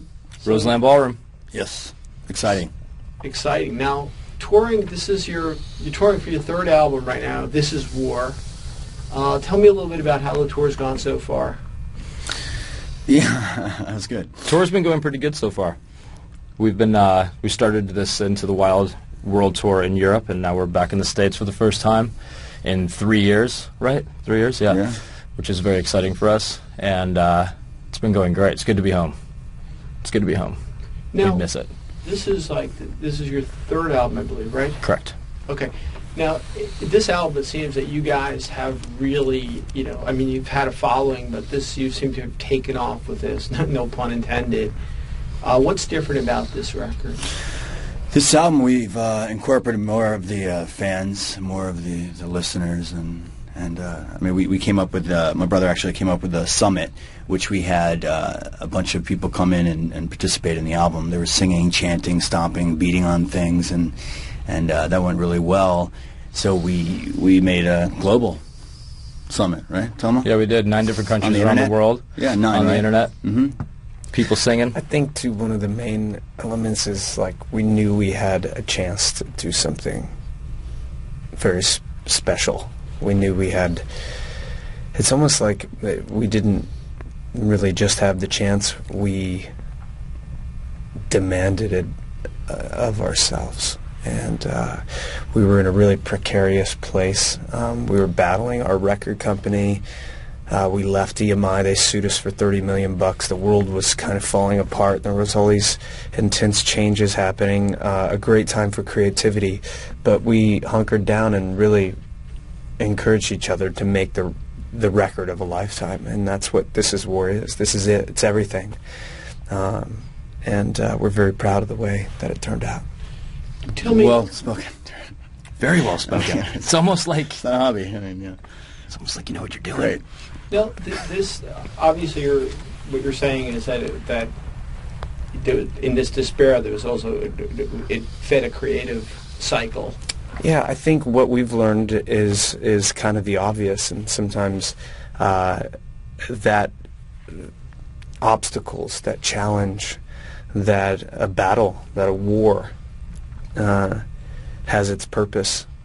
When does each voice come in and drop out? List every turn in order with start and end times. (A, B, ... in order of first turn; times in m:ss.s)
0:00.4-0:00.7 A
0:00.4-0:01.2 B
0:01.5-0:02.7 C
0:03.2-0:08.4 A
0:09.1-0:11.6 A
0:13.0-0:14.4 C
0:14.4-0:15.8 B
0:16.6-0:29.1 B
0:24.7-0:25.0 C
0:30.0-0:30.6 B
0:31.1-0:31.4 A
0:31.2-0:31.7 B
0:32.0-0:34.9 A
0:34.8-0:35.1 B
0:35.5-0:44.8 A
0:45.4-0:47.2 A
0:48.1-1:08.4 C
1:09.3-1:10.4 C
1:10.2-1:13.1 B
1:11.2-1:13.6 C
1:14.1-1:14.7 B
1:14.7-1:20.1 D
1:21.3-1:23.8 D
1:24.9-1:26.7 D
1:27.3-1:29.5 D
1:31.1-1:31.9 D
1:32.5-1:39.8 D
1:40.5-1:52.0 D
1:52.8-1:58.8 D
1:59.5-2:02.8 D
2:03.7-2:04.3 A
2:03.8-2:05.1 C
2:05.6-2:07.4 B
2:06.1-2:06.6 C
2:07.4-2:08.4 C
2:08.9-2:10.0 B
2:09.7-2:10.0 C
2:10.5-2:14.3 A
2:15.3-2:20.0 A
2:20.4-2:25.6 D
2:26.3-2:26.7 D
2:28.2-2:30.0 D
2:30.5-2:32.7 D
2:33.5-2:34.0 D
2:34.7-2:35.7 D